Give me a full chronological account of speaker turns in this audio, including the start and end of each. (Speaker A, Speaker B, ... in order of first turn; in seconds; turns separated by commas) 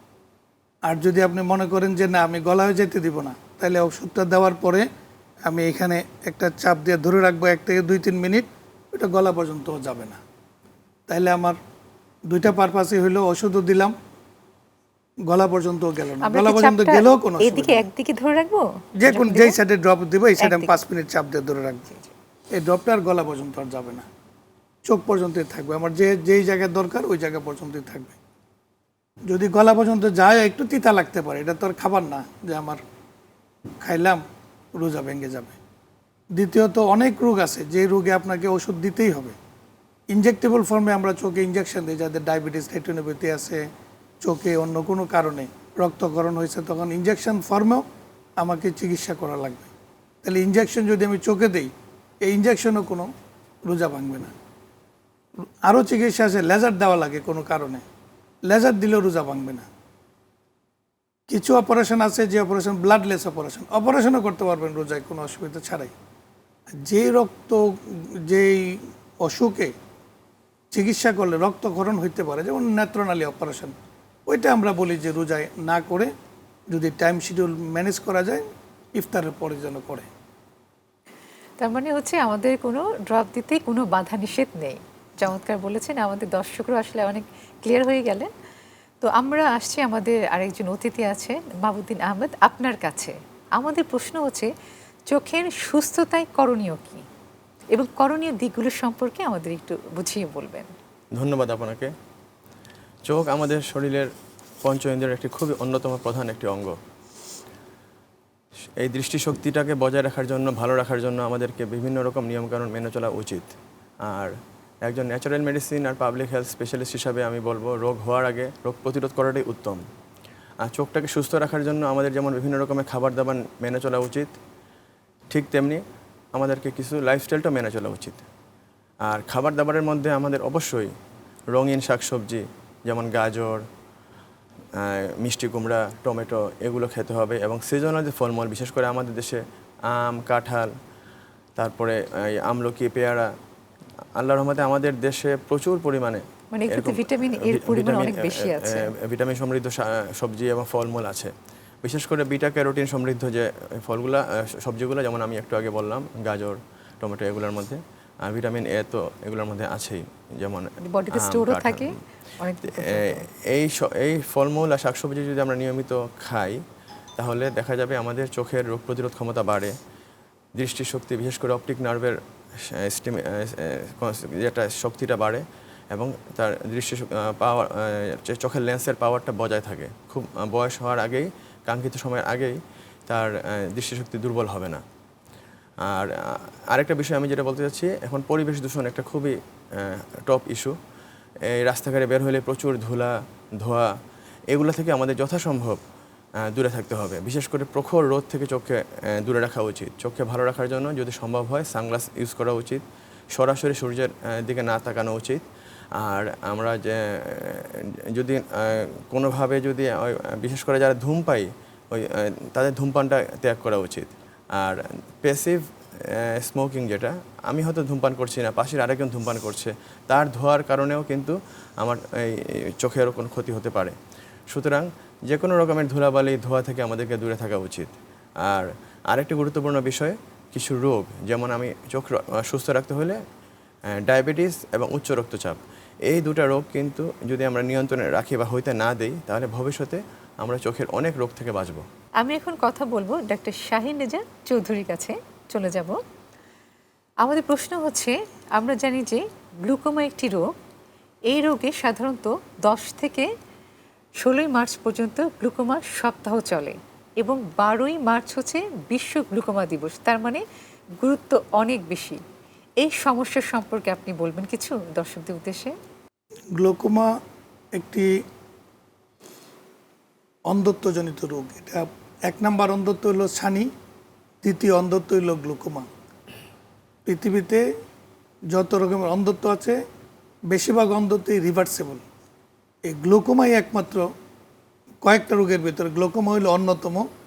Speaker A: 0.8-4.9, Speaker A: 5.5-10.2, Speaker A: 11.1-11.6, Speaker A: 12.3-13.9, Speaker A: 15.3-17.8, Speaker B: 16.2-19.6, Speaker A: 19.0-21.9, Speaker B: 20.4-20.8, Speaker A: 22.5-24.1, Speaker A: 24.9-28.1, Speaker A: 29.3-32.8, Speaker A: 33.8-34.2, Speaker A: 34.8-35.6, Speaker A: 36.3-39.4, Speaker A: 40.1-43.7, Speaker A: 44.2-47.8, Speaker A: 48.4-49.7, Speaker A: 50.2-53.1, Speaker A: 53.7-54.3, Speaker A: 55.6-57.8, Speaker A: 58.5-59.7, Speaker A: 61.3-65.9, Speaker A: 66.8-69.7, Speaker A: 70.7-73.7, Speaker A: 74.3-76.1, Speaker A: 76.7-80.1, Speaker B: 81.6-88.3, Speaker B: 89.0-94.5, Speaker B: 95.1-97.1, Speaker B: 97.7-100.7, Speaker C: 101.2-101.9, Speaker C: 103.1-104.1, Speaker C: 104.6-106.8, Speaker C: 108.8-113.5, Speaker C: 114.1-114.3, Speaker C: 114.8-119.8, Speaker C: 120.6-124.3, Speaker C: 125.3-125.8, Speaker C: 126.3-128.2, Speaker C: 129.1-130.9, Speaker C: 131.5-133.6, Speaker C: 134.8-140.7, Speaker C: 141.6-143.3, Speaker C: 144.2-151.3, Speaker B: 146.5-148.9, Speaker C: 151.8-161.9, Speaker B: 160.8-163.2, Speaker C: 162.7-166.6, Speaker C: 167.2-169.7, Speaker C: 170.6-172.2, Speaker C: 172.7-182.6, Speaker C: 183.1-184.8, Speaker C: 185.9-190.7, Speaker C: 191.5-193.9, Speaker C: 194.5-195.8, Speaker C: 196.5-205.4, Speaker C: 206.0-215.6, Speaker C: 216.2-223.9, Speaker C: 224.5-227.9, Speaker C: 228.4-233.2, Speaker C: 233.9-241.8, Speaker B: 242.2-246.0, Speaker B: 247.2-250.5, Speaker B: 251.3-253.3, Speaker B: 254.2-260.4, Speaker B: 261.0-262.2, Speaker B: 262.8-265.7, Speaker A: 266.6-267.1, Speaker A: 267.7-268.1, Speaker A: 270.5-273.7, Speaker A: 274.4-275.9, Speaker A: 277.1-277.6, Speaker A: 278.5-279.8, Speaker A: 280.5-282.0, Speaker A: 282.9-284.1, Speaker A: 285.0-287.1